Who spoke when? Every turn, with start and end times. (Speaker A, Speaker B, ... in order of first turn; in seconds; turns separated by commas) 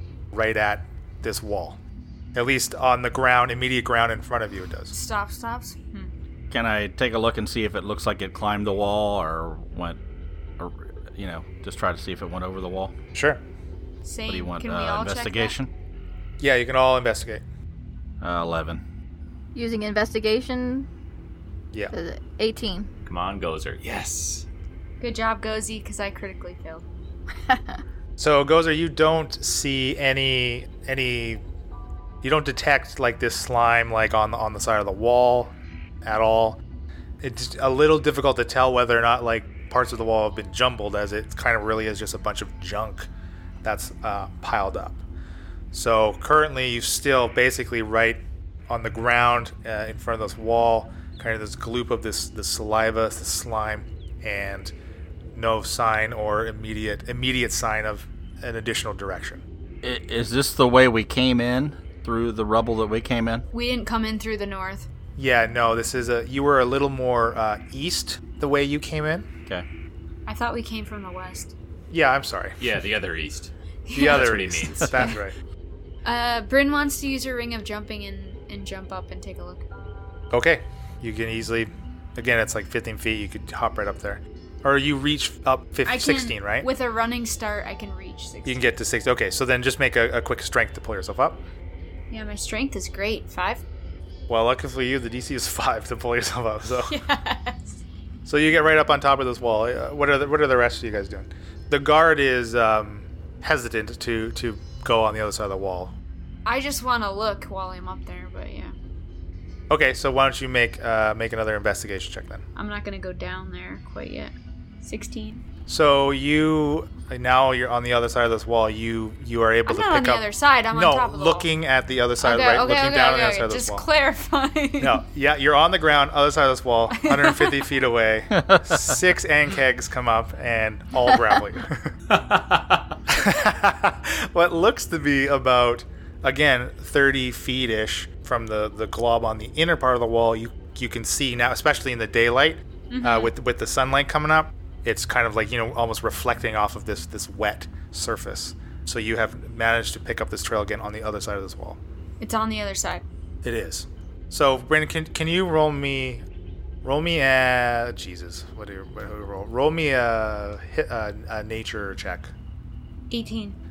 Speaker A: 0.3-1.8, Speaker A: 2.3-4.9, Speaker B: 4.9-6.1, Speaker C: 6.5-10.0, Speaker C: 10.6-12.9, Speaker A: 13.1-13.4, Speaker B: 14.0-15.5, Speaker C: 14.3-15.7, Speaker A: 16.4-17.4, Speaker C: 18.2-18.8, Speaker D: 19.5-20.9, Speaker D: 21.9-22.9, Speaker E: 23.1-24.4, Speaker B: 25.0-26.8, Speaker D: 27.5-27.8, Speaker A: 28.2-31.4, Speaker A: 32.2-36.6, Speaker A: 37.2-43.1, Speaker A: 43.6-45.0, Speaker A: 45.7-54.7, Speaker A: 55.3-59.4, Speaker C: 59.8-63.5, Speaker B: 63.5-64.9, Speaker A: 65.2-69.3, Speaker B: 70.3-71.5, Speaker A: 71.9-72.6, Speaker E: 72.6-73.5, Speaker B: 73.9-74.3, Speaker A: 73.9-75.3, Speaker E: 74.0-75.1, Speaker B: 76.0-79.6, Speaker A: 80.3-86.7, Speaker B: 85.8-88.6, Speaker A: 88.5-91.4, Speaker B: 92.1-93.6, Speaker A: 94.3-96.9, Speaker B: 96.9-97.8, Speaker A: 98.2-105.9, Speaker B: 106.5-108.7, Speaker A: 109.7-112.4, Speaker B: 112.5-115.4, Speaker A: 115.7-123.8, Speaker B: 119.7-121.5, Speaker B: 122.2-125.0, Speaker A: 124.8-131.9, Speaker B: 126.9-127.7, Speaker C: 128.3-129.0, Speaker E: 132.1-132.9, Speaker A: 133.1-151.8, Speaker B: 142.9-143.3, Speaker B: 152.2-153.0, Speaker A: 153.4-156.2, Speaker A: 156.8-162.3, Speaker B: 163.1-163.6